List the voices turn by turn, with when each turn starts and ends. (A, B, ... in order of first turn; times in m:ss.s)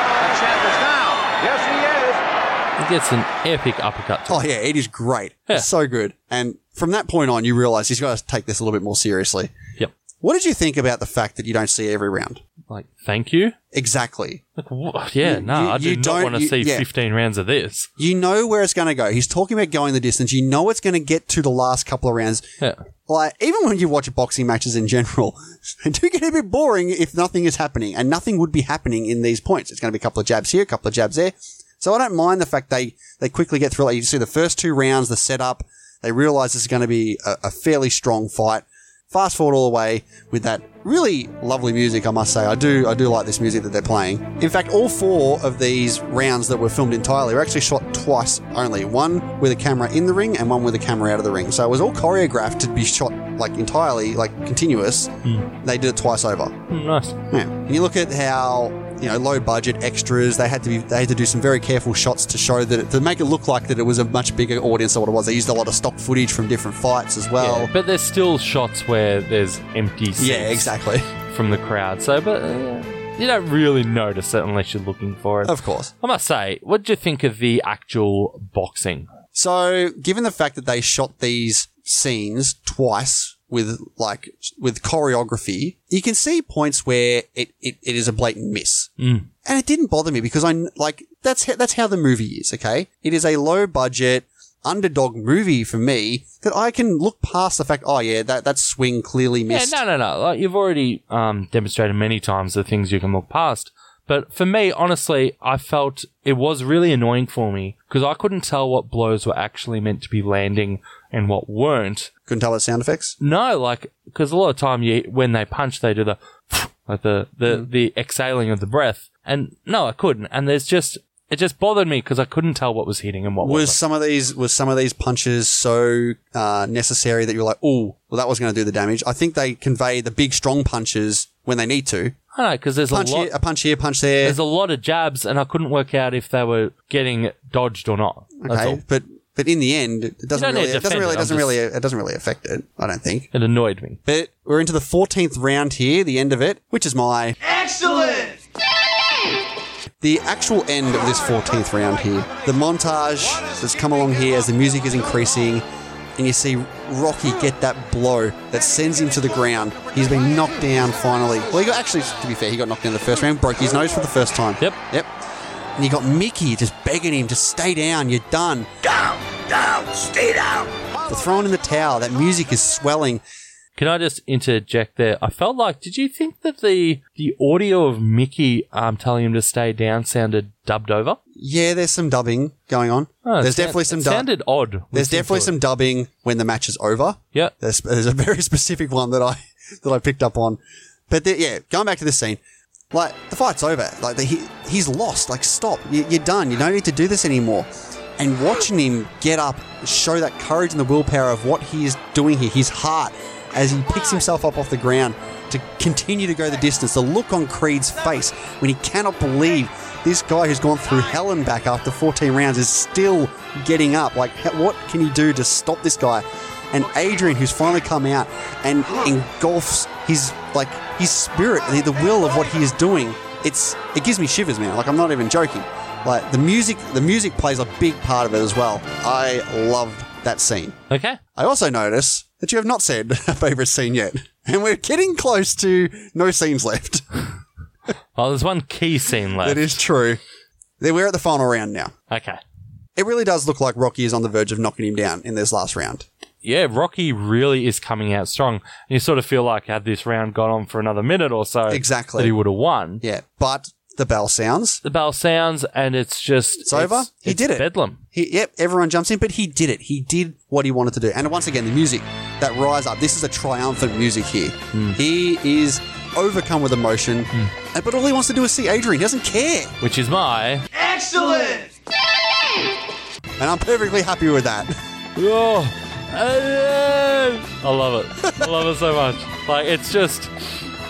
0:00.3-0:02.1 A
0:02.8-0:04.4 B
0:04.3-0:09.5 C
0:10.2-0:12.4 C
0:12.7-0:13.5 B
0:13.7-0:14.4 C
0:14.6-0:17.9 B
0:15.2-0:16.8 C
0:18.0-0:22.4 C
0:23.1-0:55.1 C
0:55.6-0:56.6 C
0:56.7-0:57.1 B
0:57.3-1:07.7 C
1:07.4-1:10.7 B
1:10.2-1:11.1 C
1:11.3-1:19.1 B
1:15.4-1:15.9 C
1:19.3-1:28.9 C
1:29.0-1:29.3 B
1:29.4-1:39.8 C
1:39.5-1:52.1 B
1:52.3-1:53.1 C
1:53.2-2:03.8 B
2:03.4-2:12.1 C
2:12.3-2:13.3 B
2:12.9-2:14.4 C
2:14.2-2:18.8 B
2:18.4-2:23.3 C
2:20.3-2:21.6 B
2:23.3-2:24.0 B
2:24.0-2:27.4 C
2:30.0-2:35.6 C
2:36.2-2:45.1 C
2:45.8-2:48.7 C
2:49.1-2:50.7 A
2:51.0-2:53.2 C
2:53.8-3:01.2 B
3:01.4-3:04.3 C
3:03.2-3:05.6 B
3:04.9-3:10.6 C
3:11.1-3:12.4 C
3:12.9-3:50.8 C
3:50.9-3:51.2 B
3:51.4-3:57.0 C
3:58.2-3:59.8 B
3:59.4-4:00.2 C
4:00.8-4:01.9 C
4:02.1-4:02.4 B
4:03.0-4:06.0 C
4:06.4-4:13.0 B
4:11.7-4:12.3 C
4:13.0-4:14.8 C
4:14.8-4:18.0 B
4:16.6-4:29.7 C
4:24.7-4:25.0 B
4:29.8-4:30.6 B
4:33.4-4:34.7 C
4:35.2-4:40.5 B